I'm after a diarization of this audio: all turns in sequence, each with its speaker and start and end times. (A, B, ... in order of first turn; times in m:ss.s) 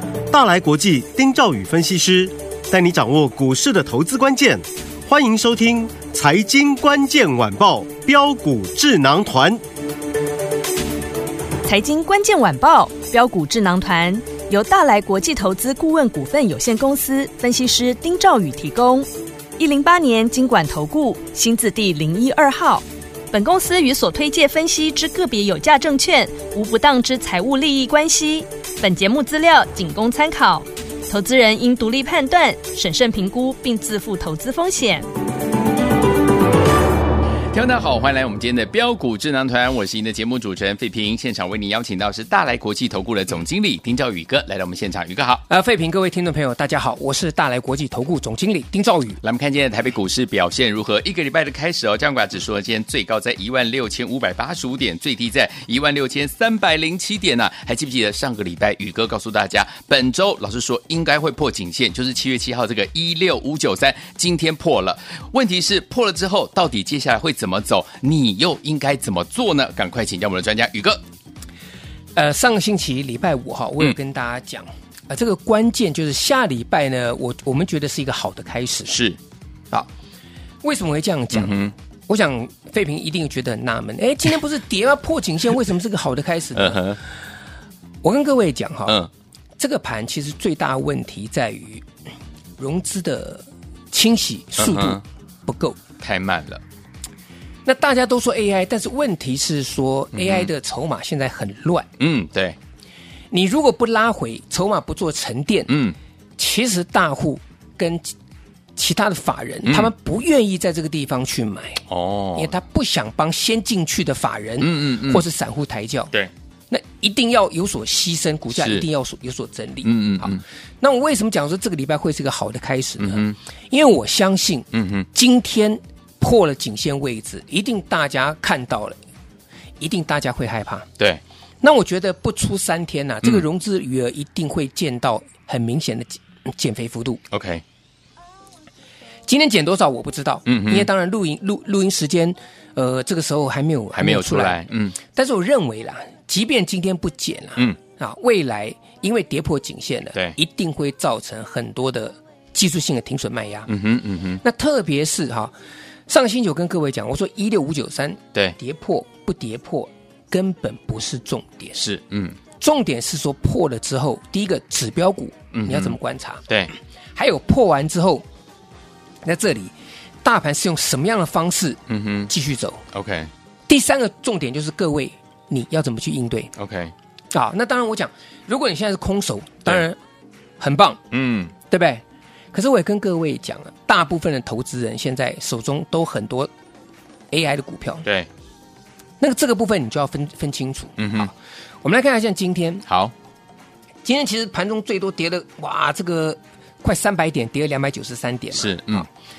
0:00.3-0:09.6 A
0:11.6-0:19.1 B
0:19.6-0:35.1 B
0:37.5-0:45.4 C
0:45.5-0:49.2 D
0:49.2-1:11.0 C
1:12.2-1:19.0 D
1:18.9-1:19.2 C
1:20.6-1:27.0 D
1:21.3-1:21.7 C
1:26.6-1:27.0 C
1:28.0-1:29.0 D
1:29.6-1:31.9 D
1:32.6-1:35.8 D
1:34.6-1:35.0 C
1:36.0-1:36.6 C
1:37.6-1:41.9 D
1:40.1-1:40.5 C
1:42.0-1:42.6 C
1:43.3-1:45.7 D
1:45.7-1:46.0 C
1:46.4-1:48.1 D
1:48.8-1:51.8 D
1:49.6-1:49.9 C
1:51.9-1:52.5 C
1:52.4-1:56.1 D
1:54.6-1:55.2 C
1:56.7-2:09.0 D
1:58.5-1:58.9 C
1:59.8-2:00.4 C
2:03.0-2:03.4 C
2:04.7-2:05.1 C
2:09.8-2:10.9 D
2:11.6-2:17.2 D
2:17.3-2:17.6 C
2:19.3-2:33.7 D
2:20.5-2:20.9 C
2:23.9-2:25.0 C
2:33.7-2:34.4 C
2:34.4-2:35.5 D
2:36.1-2:41.8 D
2:41.8-2:42.4 C
2:42.6-2:46.4 D
2:45.5-2:46.0 C
2:47.2-2:48.2 D
2:49.2-2:52.8 D
2:51.9-2:52.3 C
2:52.9-2:53.3 C
2:53.7-2:56.5 D
2:56.6-2:56.9 C
2:57.3-3:00.0 D
3:00.6-3:01.0 D
3:01.1-3:01.5 C
3:01.7-3:06.5 D
3:07.3-3:08.1 D
3:09.2-3:11.3 D
3:11.0-3:11.3 C
3:11.8-3:12.8 D
3:12.9-3:13.1 C
3:14.0-3:19.1 D
3:18.5-3:19.1 C